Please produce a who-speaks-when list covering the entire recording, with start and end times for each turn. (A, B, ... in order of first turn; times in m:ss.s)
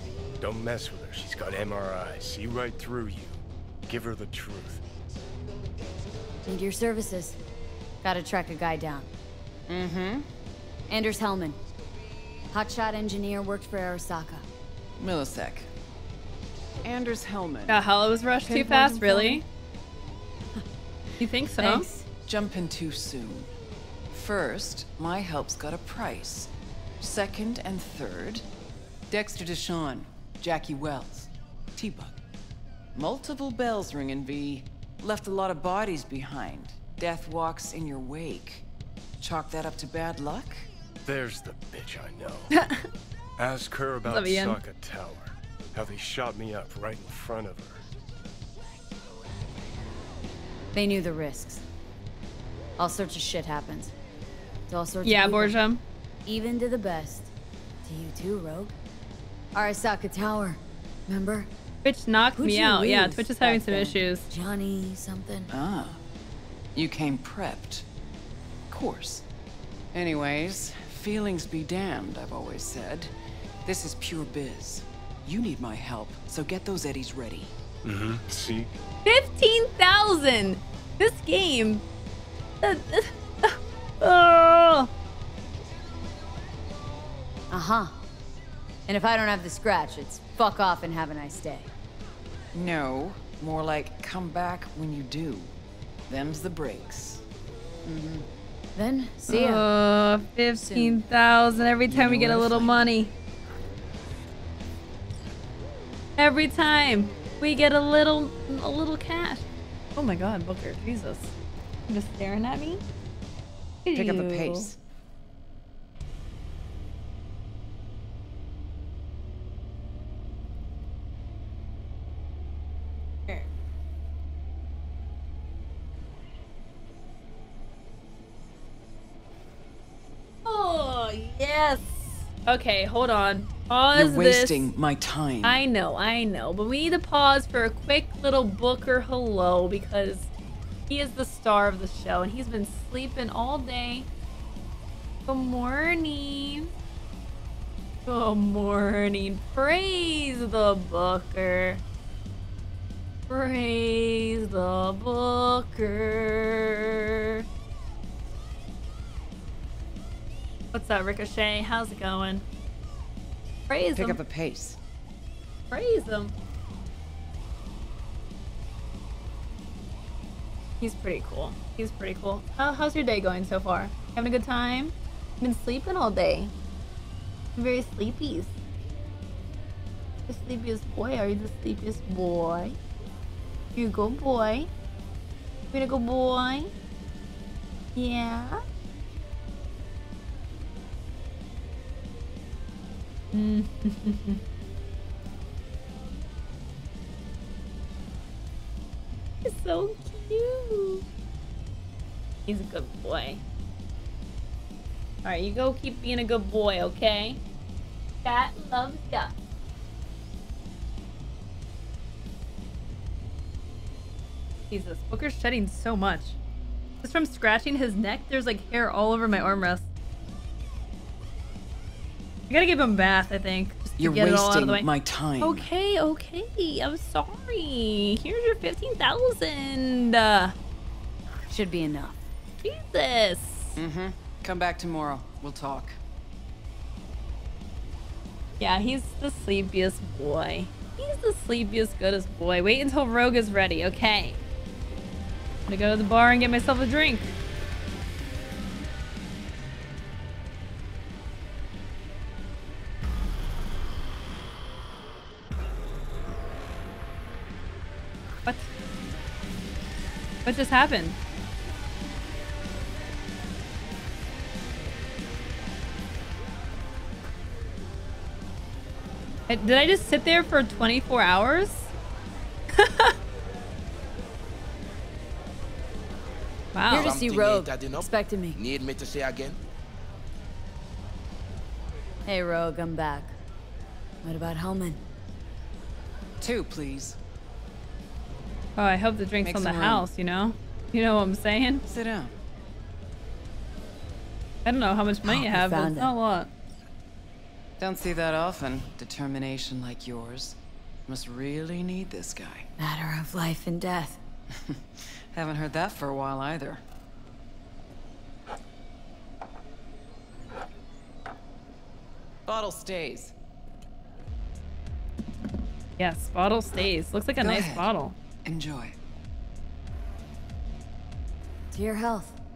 0:00.4-0:04.8 A
0:06.4-0:07.4 B
0:08.0-0:09.1 B
0:09.7-0:10.3 C
0:10.9-0:11.6 B
0:12.5-0:14.4 B
0:15.0-0:15.7 C
0:16.8-0:17.9 C
0:17.7-0:19.4 D
0:18.4-0:19.4 C
0:21.2-0:21.9 D
0:21.6-0:22.1 B
0:22.2-0:23.5 C
0:24.1-0:28.4 C
0:29.1-0:32.2 C
0:32.9-0:38.6 C
0:39.2-0:40.7 C
0:41.0-0:42.5 A
0:42.5-0:42.9 D
0:43.4-0:47.8 A
0:44.0-0:44.6 D
0:50.7-0:51.6 B
0:52.8-0:53.9 B
0:54.7-0:55.6 B
0:55.0-0:55.8 D
0:56.2-0:57.3 B
0:57.8-0:58.7 B
0:59.5-1:01.5 B
1:01.8-1:04.3 D
1:02.4-1:05.5 B
1:05.5-1:06.0 C
1:06.7-1:07.8 C
1:08.7-1:09.2 C
1:09.9-1:13.1 C
1:13.6-1:17.5 C
1:17.8-1:18.7 A
1:19.0-1:21.8 D
1:22.6-1:24.9 D
1:27.5-1:28.0 B
1:28.9-1:31.7 B
1:32.5-1:35.5 C
1:36.1-1:37.2 C
1:37.8-1:39.6 B
1:39.3-1:43.1 D
1:40.6-1:41.0 B
1:41.9-1:42.8 C
1:46.2-1:51.3 D
1:51.9-1:52.8 D
1:53.8-1:54.7 D
1:53.9-1:54.8 C
2:10.4-2:14.7 D
2:13.9-2:15.6 C
2:15.4-2:20.3 D
2:20.9-2:24.1 D
2:25.3-2:26.7 D
2:28.0-2:31.8 D
2:33.3-2:37.4 D
2:40.7-2:42.4 D
2:43.7-2:44.2 D
2:43.9-2:44.8 C
2:45.7-2:46.3 D
2:50.8-2:56.5 D
2:57.6-2:58.6 D
3:00.3-3:02.8 D
3:03.8-3:04.7 D
3:05.7-3:06.7 D
3:08.0-3:08.6 D
3:13.3-3:14.4 D
3:19.4-3:21.0 D
3:22.5-3:23.4 D
3:25.2-3:27.4 D
3:28.2-3:29.3 D
3:34.7-3:36.4 D
3:37.0-3:39.8 D
3:42.5-3:44.9 D
3:44.0-3:45.7 C
3:45.4-3:50.6 D
3:51.5-3:52.2 B
3:52.6-3:53.8 D
3:53.8-3:56.0 C
3:58.6-4:04.4 D
4:05.7-4:07.3 D
4:20.4-4:21.2 D
4:29.5-4:31.9 D
4:32.7-4:33.1 D
4:36.7-4:37.2 D
4:36.9-4:38.6 B
4:36.9-4:39.6 E
4:42.2-4:43.4 B
4:44.2-4:45.0 B
4:46.4-4:47.2 C
4:48.8-4:51.8 D
4:49.4-4:50.1 C
4:51.9-4:52.3 C
4:54.6-4:56.5 D
4:55.2-4:56.1 B
4:57.8-5:02.7 C
5:02.8-5:04.2 B
5:04.5-5:06.8 C
5:12.5-5:13.3 C
5:16.0-5:18.2 D
5:17.4-5:17.9 C
5:18.4-5:19.0 C
5:21.7-5:22.4 B